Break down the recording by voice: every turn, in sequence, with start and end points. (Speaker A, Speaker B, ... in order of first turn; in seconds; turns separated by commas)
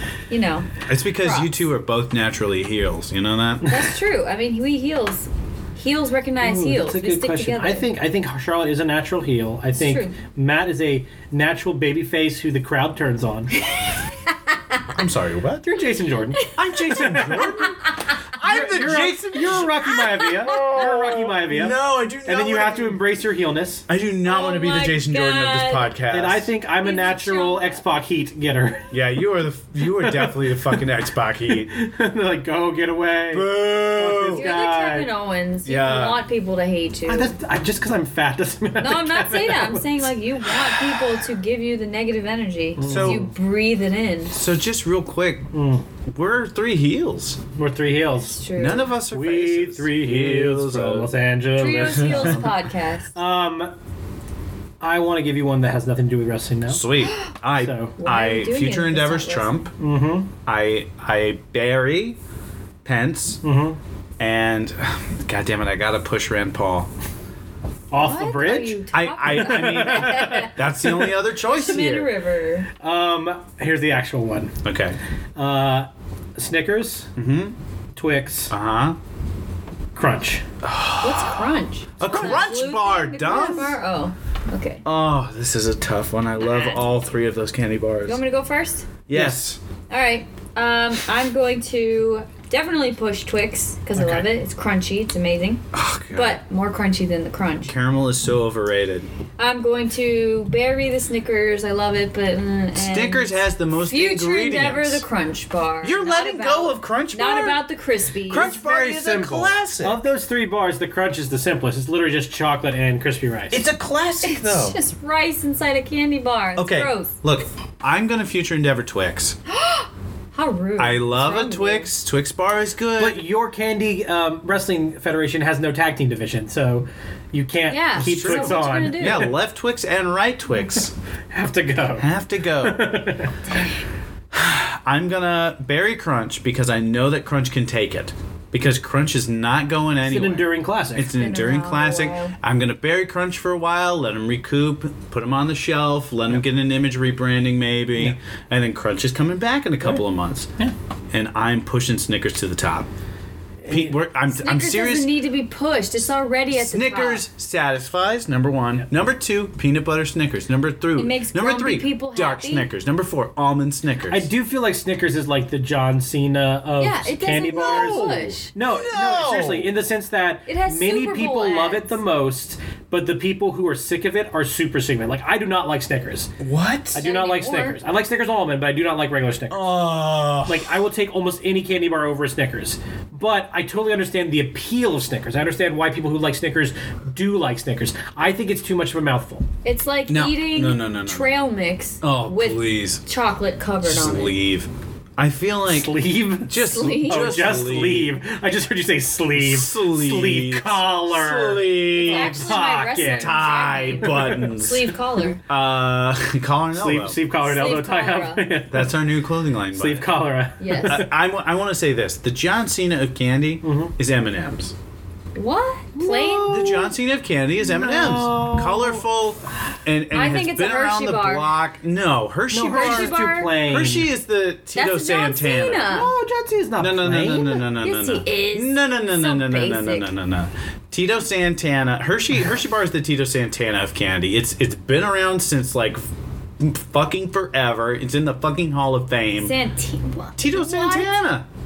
Speaker A: 0.3-1.6, Speaker B: 0.8-3.8, Speaker A: 3.6-7.8, Speaker C: 6.4-13.7, Speaker A: 9.8-10.1, Speaker B: 14.9-15.7, Speaker C: 15.6-17.7, Speaker B: 16.6-17.8, Speaker C: 18.4-23.8, Speaker B: 18.4-23.0, Speaker B: 23.9-26.5, Speaker A: 24.2-25.9, Speaker C: 26.1-28.9, Speaker A: 26.8-27.8, Speaker B: 28.9-31.7, Speaker C: 29.9-30.8, Speaker C: 31.5-35.1, Speaker B: 33.3-34.5, Speaker A: 34.3-37.3, Speaker B: 35.6-36.2, Speaker C: 37.1-41.2, Speaker A: 38.8-44.3, Speaker C: 42.8-43.3, Speaker B: 42.9-43.3, Speaker B: 44.3-45.5, Speaker C: 45.5-45.8, Speaker B: 46.1-47.4, Speaker C: 47.5-48.4, Speaker A: 48.1-48.9, Speaker B: 48.5-51.1, Speaker C: 49.1-52.5, Speaker A: 51.6-53.1, Speaker B: 51.9-52.5, Speaker C: 53.1-53.7, Speaker C: 54.8-56.9, Speaker B: 56.7-59.7, Speaker A: 57.0-57.3, Speaker C: 57.6-57.9, Speaker A: 58.0-59.7, Speaker C: 59.8-60.3, Speaker B: 60.5-62.2, Speaker B: 62.8-63.4, Speaker C: 63.4-63.8, Speaker B: 64.2-66.9, Speaker C: 67.9-71.1, Speaker A: 67.9-70.5, Speaker B: 68.9-72.1, Speaker A: 71.5-72.7, Speaker C: 72.8-74.5, Speaker B: 74.6-75.0, Speaker C: 75.3-77.1, Speaker B: 77.2-77.5, Speaker C: 78.0-78.5, Speaker B: 78.5-79.0, Speaker C: 80.0-80.4, Speaker B: 80.6-83.8, Speaker A: 81.0-84.8, Speaker B: 84.8-88.2, Speaker A: 86.4-86.8, Speaker A: 88.1-89.0, Speaker B: 89.1-89.6, Speaker C: 89.1-89.4, Speaker A: 89.9-95.6, Speaker C: 93.9-94.2, Speaker B: 95.7-96.4, Speaker A: 96.1-97.7, Speaker B: 97.6-99.1, Speaker A: 99.4-108.5, Speaker B: 102.7-105.0, Speaker B: 105.8-107.6, Speaker B: 108.3-110.0, Speaker C: 108.3-113.6, Speaker B: 113.5-114.8, Speaker A: 114.2-117.2, Speaker B: 116.5-119.4, Speaker A: 119.5-121.9, Speaker B: 120.8-123.2, Speaker C: 123.0-129.3, Speaker A: 127.7-129.3, Speaker B: 128.0-130.9, Speaker C: 131.3-132.1, Speaker B: 132.0-132.9, Speaker C: 132.6-133.4, Speaker A: 133.5-133.8, Speaker B: 134.3-150.5, Speaker C: 140.0-141.2, Speaker A: 141.1-142.3, Speaker B: 151.1-152.9, Speaker C: 153.6-153.9, Speaker B: 153.7-155.1, Speaker A: 154.3-157.2, Speaker B: 156.5-164.3, Speaker A: 160.9-162.7, Speaker C: 164.1-176.3, Speaker A: 166.8-168.5, Speaker B: 167.6-169.7, Speaker A: 170.5-171.9, Speaker B: 176.4-177.0, Speaker C: 176.9-179.7, Speaker A: 177.0-177.8, Speaker B: 179.5-180.7, Speaker C: 180.4-189.4, Speaker A: 189.6-194.4, Speaker B: 190.1-191.3, Speaker B: 192.0-193.0, Speaker B: 193.8-198.1, Speaker C: 195.7-203.4, Speaker A: 196.6-197.5, Speaker B: 199.3-204.9, Speaker A: 202.0-205.4, Speaker C: 204.0-204.4, Speaker B: 205.5-207.2, Speaker C: 206.7-208.9, Speaker A: 207.4-208.5, Speaker B: 208.7-210.1, Speaker C: 209.7-211.1, Speaker A: 210.6-211.0, Speaker B: 210.8-214.7, Speaker C: 213.6-213.9, Speaker A: 215.3-216.9, Speaker C: 215.9-216.8, Speaker B: 216.4-226.0, Speaker C: 217.6-219.0, Speaker A: 220.1-221.5, Speaker C: 222.5-224.1, Speaker A: 222.7-223.6, Speaker A: 224.7-226.1, Speaker C: 225.8-227.6, Speaker B: 226.8-236.0, Speaker A: 227.7-230.1, Speaker B: 236.6-239.5, Speaker A: 239.4-241.2, Speaker B: 240.4-241.4